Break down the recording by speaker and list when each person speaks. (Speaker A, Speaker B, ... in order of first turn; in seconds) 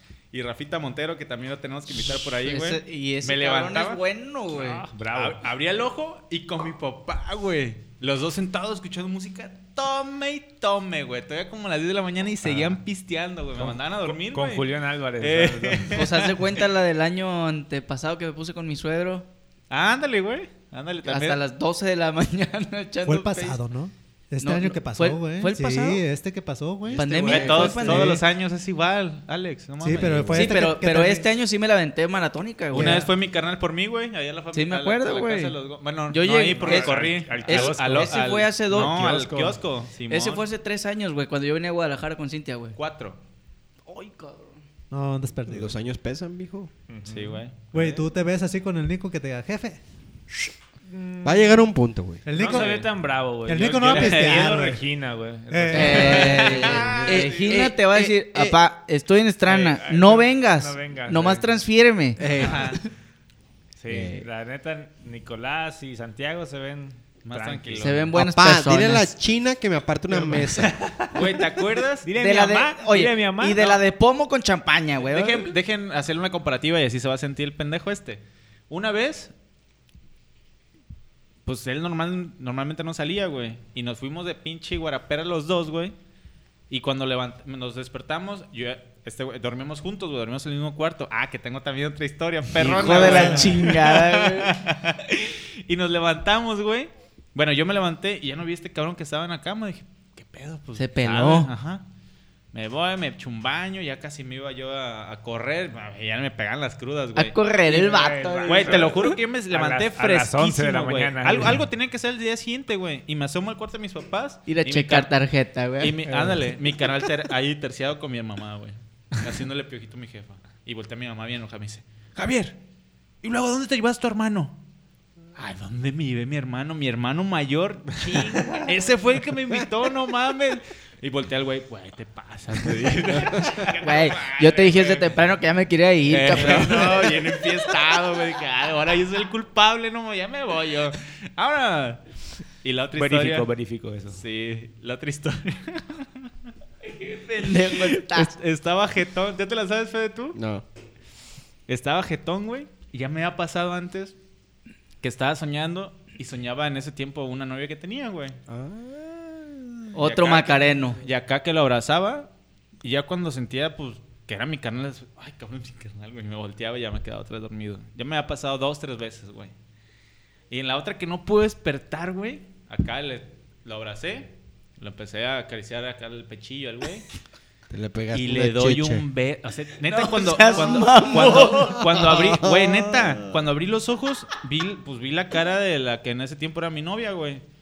Speaker A: 0.3-4.0, 5.1-14.7, 15.2-16.6, 19.7-21.4, 26.9-30.6, 32.7-40.5, 42.8-43.2, 47.1-48.0, 52.3-52.9, 53.8-54.6, 55.9-57.5, 62.4-62.8, 67.2-68.1, 71.1-72.1, 75.0-79.3, 81.5-86.0, 86.7-101.8, 102.5-107.4, 108.5-115.1, 115.8-122.6, 123.2-124.6, 125.4-135.2, 136.1-142.0, 142.6-143.5, 144.1-146.3, 147.6-150.4, 151.7-154.2, 155.0-158.4, 160.0-162.3, 162.8-169.5, 170.5-177.1, 178.1-187.4
Speaker B: 2.4-4.8, 15.9-19.3, 21.1-23.6, 24.4-26.0, 26.9-28.2, 30.4-33.1, 34.5-35.6, 36.1-39.1, 40.1-42.8, 43.9-44.6, 55.7-62.6, 67.8-69.1, 72.2-75.5, 92.6-94.6, 100.8-101.5, 107.2-109.1, 114.5-116.0, 133.8-137.2, 146.8-148.3, 159.9-161.0, 179.9-182.1
Speaker C: 4.5-5.4, 12.4-12.8, 13.6-16.0, 36.5-39.6, 46.9-47.4, 50.9-51.6, 52.3-56.6, 59.5-61.5, 63.8-68.1, 70.1-71.5, 72.0-73.8, 107.6-111.6, 116.1-116.5, 143.0-144.2
Speaker D: 23.1-28.2, 29.8-31.3, 32.7-33.1, 44.9-45.8, 47.7-49.8, 52.2-52.8, 53.5-54.8, 55.5-57.0
Speaker E: 27.2-27.8, 45.5-46.7, 51.2-52.2, 56.8-58.6, 62.2-62.6, 63.9-64.3, 68.1-70.7, 150.3-150.7, 158.5-159.9, 177.7-179.0, 181.3-183.4